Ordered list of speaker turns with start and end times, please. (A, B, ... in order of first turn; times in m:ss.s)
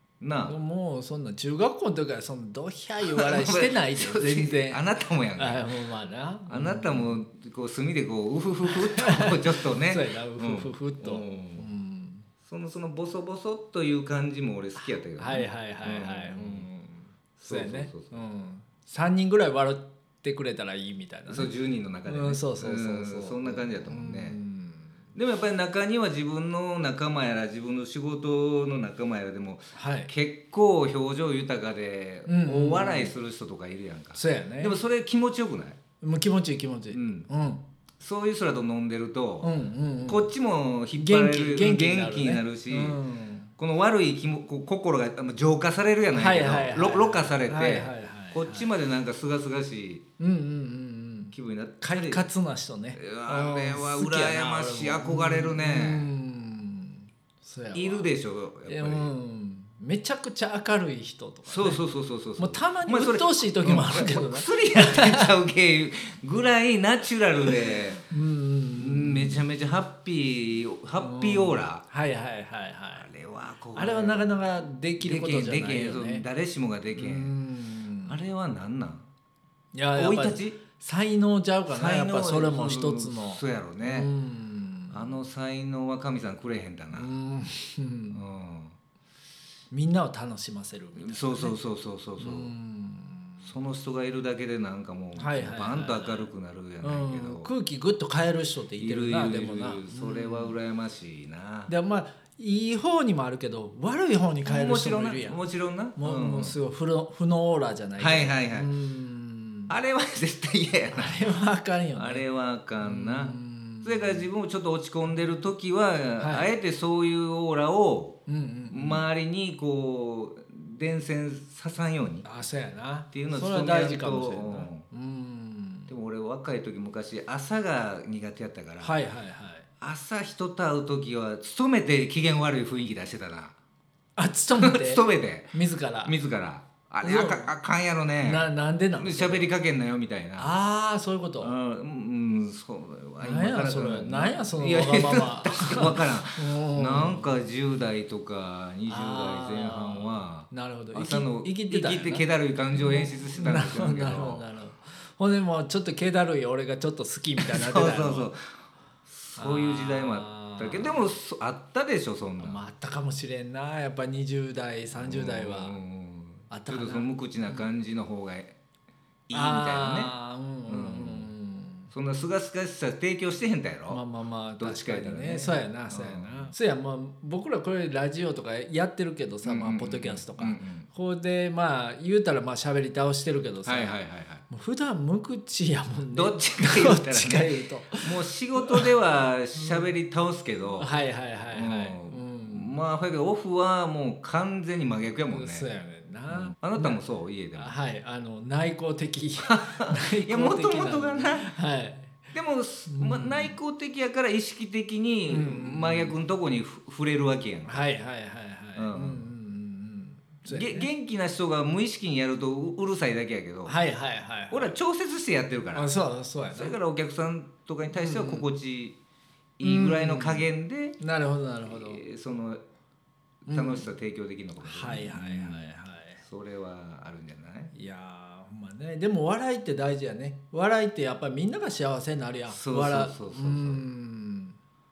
0:00.2-0:00.6 A
0:00.4-0:04.8 B
0:03.0-0:05.7 A
0:05.4-0:07.2 B
0:06.5-0:11.6 A
0:08.6-0:12.3 B
0:12.4-0:16.7 A
0:14.8-0:21.5 B
0:17.4-0:18.2 A
0:21.3-0:24.4 A
0:22.1-0:25.0 B
0:25.2-0:35.8 A
0:29.7-0:30.1 B
0:32.3-0:33.1 B
0:34.2-0:34.8 B
0:36.0-0:37.6 B
0:36.9-0:37.3 A
0:38.0-0:39.5 A
0:39.4-0:40.3 B
0:40.1-0:43.0 A
0:41.0-0:43.5 B
0:43.6-0:50.0 A
0:46.1-0:48.7 B
0:50.2-0:58.1 B
0:51.3-0:52.3 A
0:53.0-0:56.1 A
0:57.7-0:59.1 A
0:58.7-1:01.8 B
1:01.5-1:08.0 A
1:02.4-1:05.3 B
1:08.1-1:09.4 B
1:08.8-1:11.8 A
1:11.0-1:13.1 B
1:13.0-1:14.4 A
1:13.8-1:16.2 B
1:15.0-1:17.3 A
1:17.0-1:18.2 B
1:18.1-1:19.1 A
1:19.7-1:25.1 B
1:20.0-1:20.6 A
1:21.7-1:24.1 A
1:24.9-1:27.1 A
1:26.9-1:28.2 B
1:28.1-1:28.8 A
1:29.7-1:31.6 B
1:31.0-1:32.5 A
1:32.2-1:33.5 B
1:33.4-1:37.5 A
1:35.2-1:36.3 B
1:36.8-1:40.6 B
1:38.8-1:41.7 A
1:41.7-1:45.4 B
1:44.4-1:46.6 A
1:46.0-1:49.8 B
1:48.0-1:48.7 A
1:49.7-1:51.2 A
1:50.9-1:52.2 B
1:52.0-2:02.2 A
1:52.8-1:54.3 B
1:56.2-1:56.5 B
1:58.3-1:59.0 B
2:02.2-2:05.9 B
2:03.1-2:04.8 A
2:05.9-2:08.9 A
2:08.8-2:09.7 B
2:09.8-2:13.6 A
2:14.2-2:16.2 B
2:14.6-2:20.6 A
2:17.0-2:17.5 B
2:18.2-2:19.5 B
2:20.4-2:21.5 B
2:21.4-2:34.4 A
2:23.2-2:27.3 B
2:28.9-2:38.3 B
2:37.4-2:38.5 A
2:39.1-2:42.6 A
2:39.4-2:41.1 B
2:42.4-2:45.8 B
2:45.0-2:48.6 A
2:46.5-2:47.6 B
2:49.3-2:50.1 A
2:49.3-2:51.9 B
2:50.7-2:51.3 A
2:51.9-2:54.0 A
2:53.9-3:04.0 B
2:54.6-2:56.5 A
2:59.4-3:00.9 A
3:03.6-3:04.4 A
3:04.5-3:08.9 B
3:06.1-3:10.9 A
3:09.6-3:09.8 B
3:10.8-3:12.8 B
3:11.5-3:15.7 A
3:15.3-3:17.0 B
3:16.3-3:17.7 A
3:17.6-3:22.3 B
3:19.4-3:21.5 A
3:22.3-3:27.8 A
3:22.9-3:23.6 B
3:25.3-3:26.2 B
3:27.7-3:30.9 B
3:28.8-3:29.3 A
3:30.5-3:33.8 A
3:33.7-3:34.8 B
3:34.5-3:35.9 A
3:35.7-3:36.8 B
3:36.5-3:39.0 A
3:37.9-3:38.5 B
3:39.6-3:41.0 A
3:39.6-3:42.0 B
3:41.6-3:42.6 A
3:43.5-3:43.9 B
3:43.5-3:45.7 A
3:44.6-3:46.2 B
3:46.2-3:47.7 A
3:47.7-3:54.6 B
3:52.5-3:53.8 A